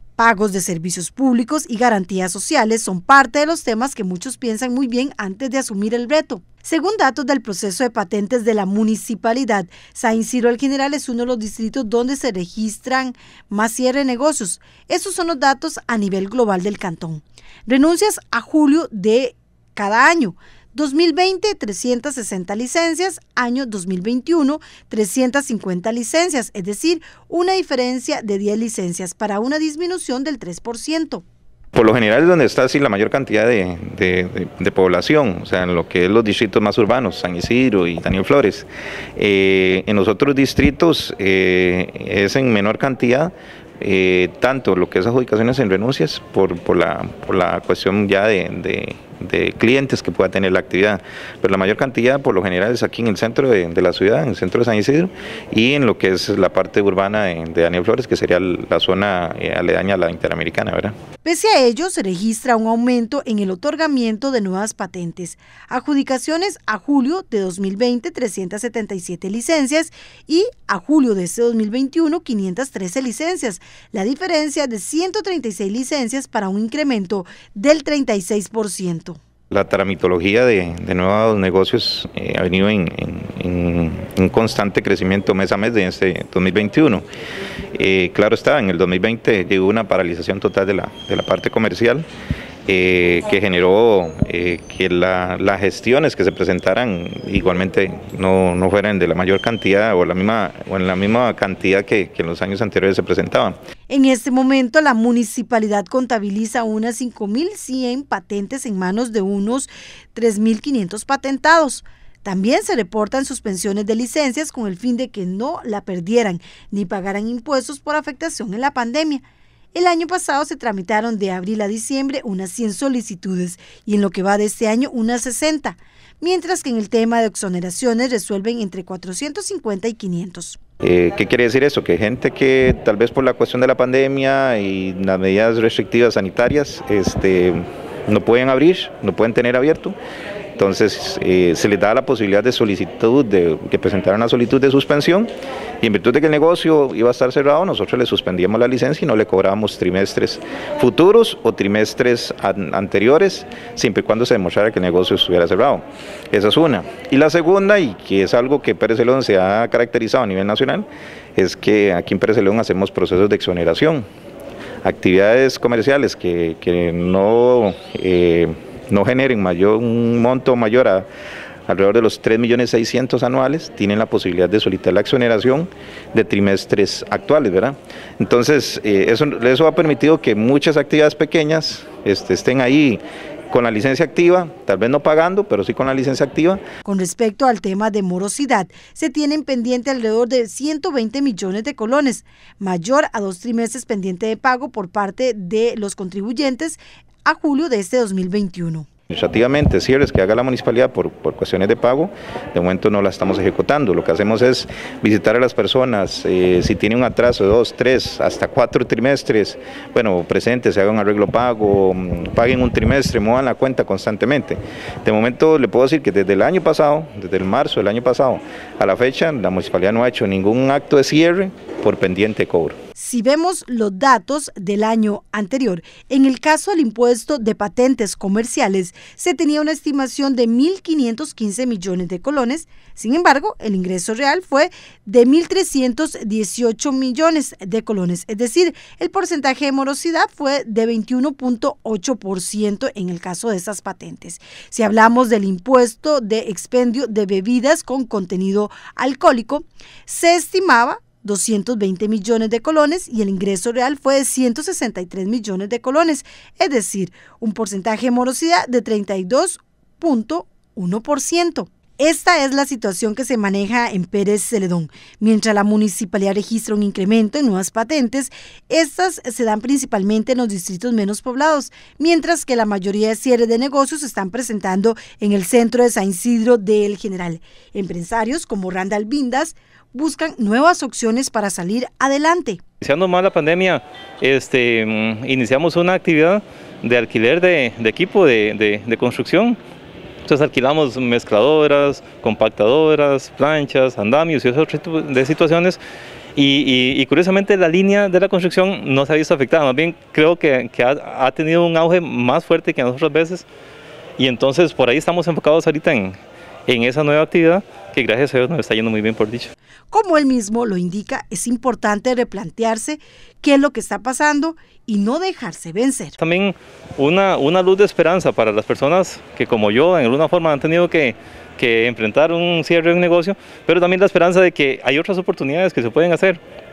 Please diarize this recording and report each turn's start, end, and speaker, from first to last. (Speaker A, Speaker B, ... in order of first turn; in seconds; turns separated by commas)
Speaker A: 0.2-31.2, Speaker B: 31.7-60.9, Speaker A: 61.2-79.2, Speaker B: 79.5-87.0, Speaker B: 87.7-92.1, Speaker B: 92.7-103.5, Speaker A: 103.9-130.6, Speaker B: 130.8-140.0, Speaker B: 140.6-145.3, Speaker B: 145.8-164.1, Speaker B: 164.8-171.1, Speaker B: 171.7-186.6, Speaker A: 186.8-198.8, Speaker B: 199.1-222.8, Speaker A: 222.9-282.6, Speaker C: 282.8-289.6, Speaker C: 290.2-295.8, Speaker C: 296.4-303.4, Speaker C: 304.2-306.1, Speaker C: 306.7-309.5, Speaker A: 309.9-316.2, Speaker C: 316.2-326.4